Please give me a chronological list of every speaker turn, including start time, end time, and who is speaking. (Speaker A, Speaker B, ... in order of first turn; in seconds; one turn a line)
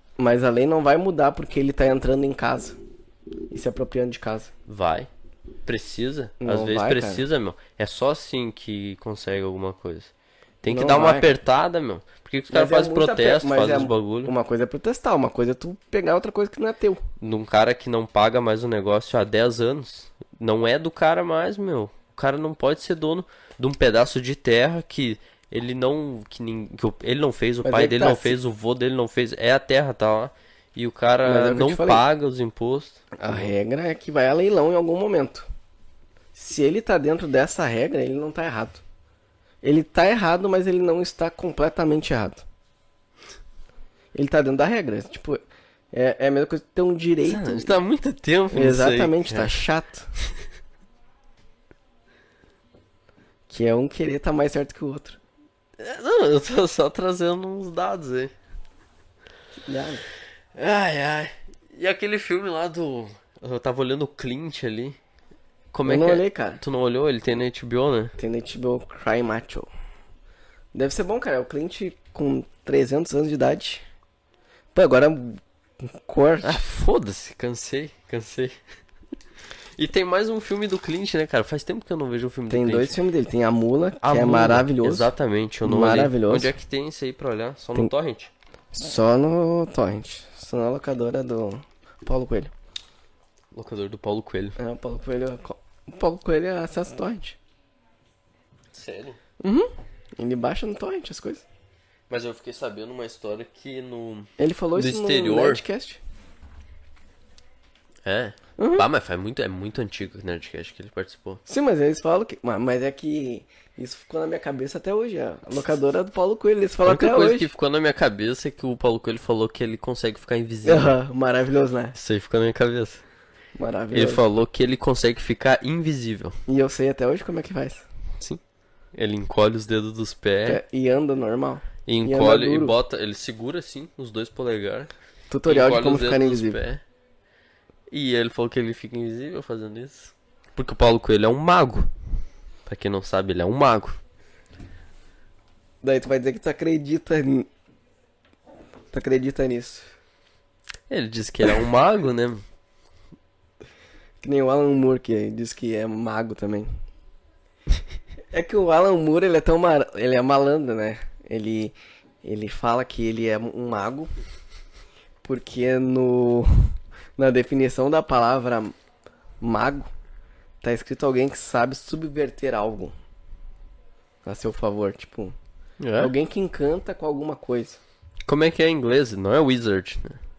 Speaker A: 0.2-2.8
Speaker A: 3.5-4.5
Speaker B: 4.7-5.1
Speaker B: 5.7-10.1
Speaker A: 6.4-7.2
Speaker B: 10.6-14.3
Speaker A: 10.7-11.3
Speaker A: 12.5-17.0
Speaker B: 17.2-33.5
Speaker A: 27.6-28.4
Speaker A: 31.2-32.0
Speaker A: 33.2-35.5
Speaker A: 36.4-38.8
Speaker A: 39.6-42.4
Speaker A: 44.1-47.8
Speaker B: 47.2-49.5
Speaker A: 48.5-50.1
Speaker A: 53.5-55.2
Speaker B: 55.8-58.3
Speaker A: 59.6-60.0
Speaker B: 60.5-65.0
Speaker B: 65.7-68.2
Speaker A: 65.8-66.6
Speaker A: 68.2-69.7
Speaker A: 70.7-73.8
Speaker A: 74.7-76.6
Speaker B: 76.4-78.6
Speaker B: 79.8-83.0
Speaker A: 82.5-85.1
Speaker B: 84.0-88.3
Speaker A: 85.6-86.5
Speaker A: 88.7-92.5
Speaker B: 93.5-94.6
Speaker A: 94.6-97.4
Speaker B: 98.7-99.2
Speaker A: 99.4-101.5
Speaker B: 102.1-105.6
Speaker A: 104.4-106.0
Speaker B: 108.0-111.4
Speaker A: 108.6-108.9
Speaker A: 111.5-117.5
Speaker B: 116.8-121.0
Speaker A: 120.7-122.0
Speaker B: 122.0-123.0
Speaker A: 123.6-124.2
Speaker B: 123.9-126.4
Speaker A: 126.5-127.9
Speaker B: 128.9-130.6
Speaker A: 130.5-132.8
Speaker B: 131.9-134.9
Speaker A: 135.3-136.6
Speaker B: 135.4-136.8
Speaker B: 137.9-141.9
Speaker B: 142.7-144.0
Speaker A: 145.8-147.5
Speaker A: 148.9-149.9
Speaker B: 150.9-152.4
Speaker A: 154.2-156.7
Speaker A: 158.3-164.1
Speaker A: 165.2-168.7
Speaker A: 169.4-169.9
Speaker A: 170.6-172.9
Speaker A: 174.2-175.3
Speaker B: 175.8-176.1
Speaker A: 176.0-177.8
Speaker B: 178.3-180.2